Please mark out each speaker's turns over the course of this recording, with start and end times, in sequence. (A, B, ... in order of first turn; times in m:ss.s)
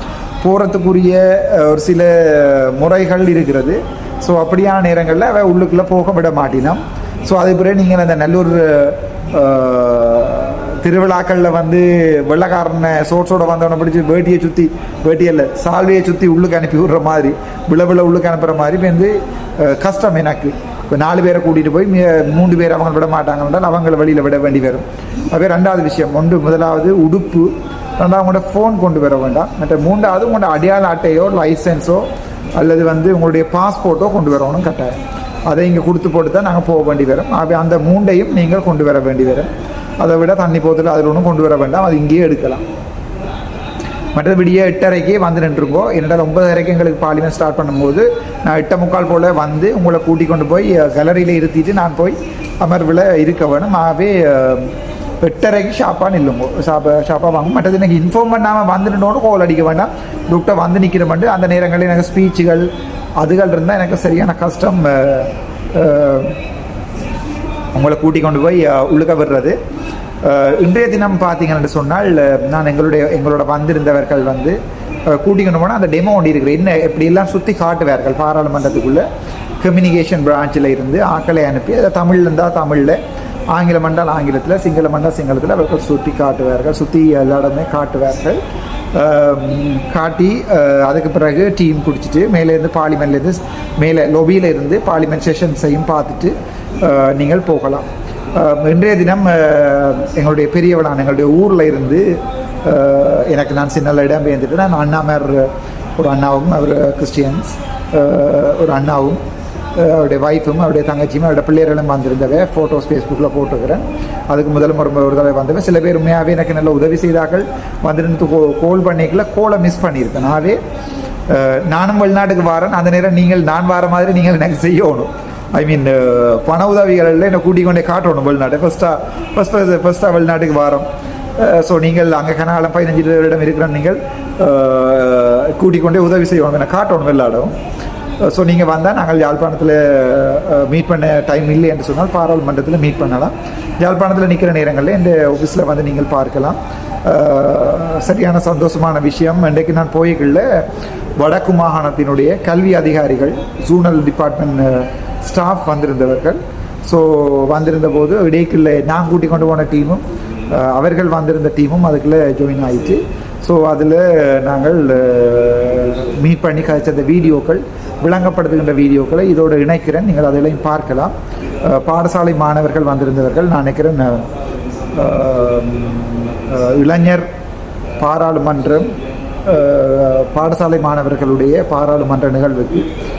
0:00.4-0:42.6 A
0:44.1-1:06.4 A
1:07.7-1:09.6 A
1:10.2-1:19.1 A
1:19.6-1:23.0 A
1:23.5-1:28.4 A
1:28.9-1:49.2 A
1:49.8-2:00.6 A
2:01.3-2:17.5 A
2:18.2-2:30.7 A
2:31.2-2:54.3 A
2:54.9-2:57.3 A
2:58.0-2:58.9 A
2:59.4-3:02.9 A